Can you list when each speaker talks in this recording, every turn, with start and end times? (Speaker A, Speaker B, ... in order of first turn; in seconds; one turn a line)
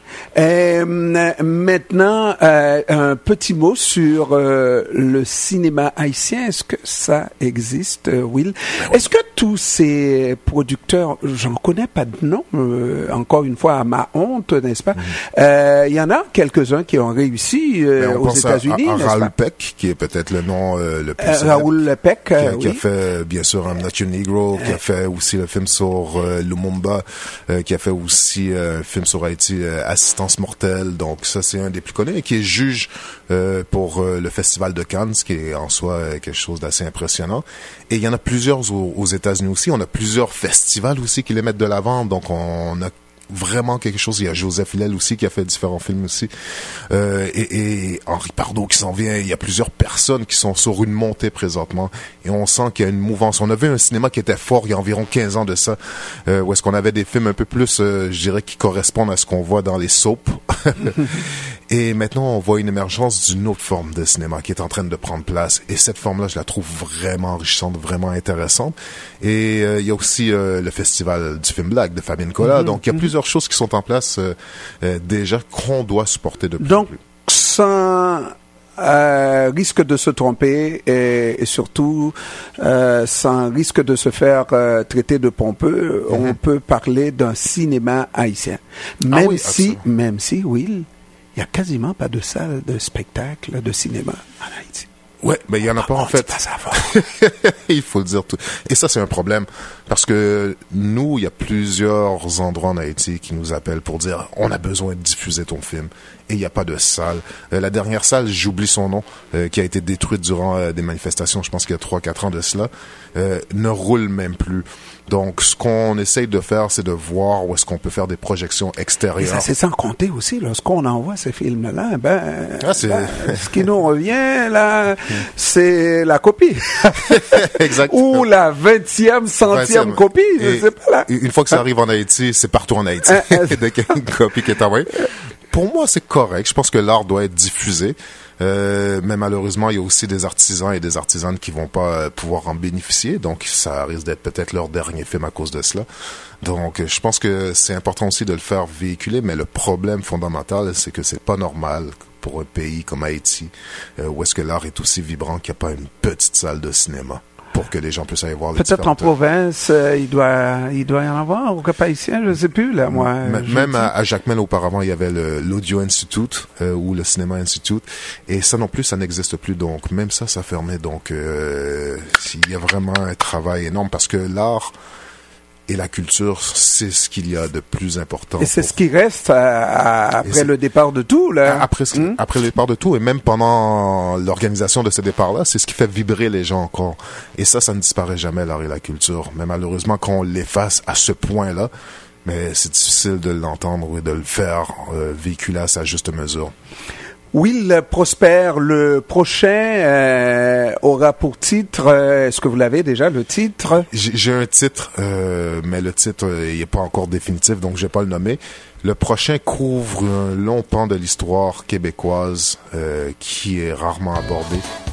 Speaker A: 0.3-19.3
Speaker B: 18.0-21.7
Speaker A: 21.2-22.8
Speaker B: 22.4-46.3
Speaker B: 46.9-77.0
Speaker A: 72.5-72.8
Speaker A: 76.6-94.9
Speaker B: 89.1-89.8
Speaker B: 95.2-119.5
Speaker A: 95.8-97.0
Speaker A: 119.2-131.1
Speaker B: 122.6-123.7
Speaker B: 127.1-128.2
Speaker B: 129.5-135.0
Speaker A: 133.1-133.7
Speaker B: 135.5-145.9
Speaker B: 146.4-159.1
Speaker A: 158.6-163.9
Speaker B: 162.9-174.7
Speaker B: 175.7-178.7
Speaker A: 178.4-182.2
Speaker B: 180.2-180.5
Speaker B: 181.4-191.7
Speaker B: 192.2-196.5
Speaker A: 197.3-203.9
Speaker B: 203.9-214.6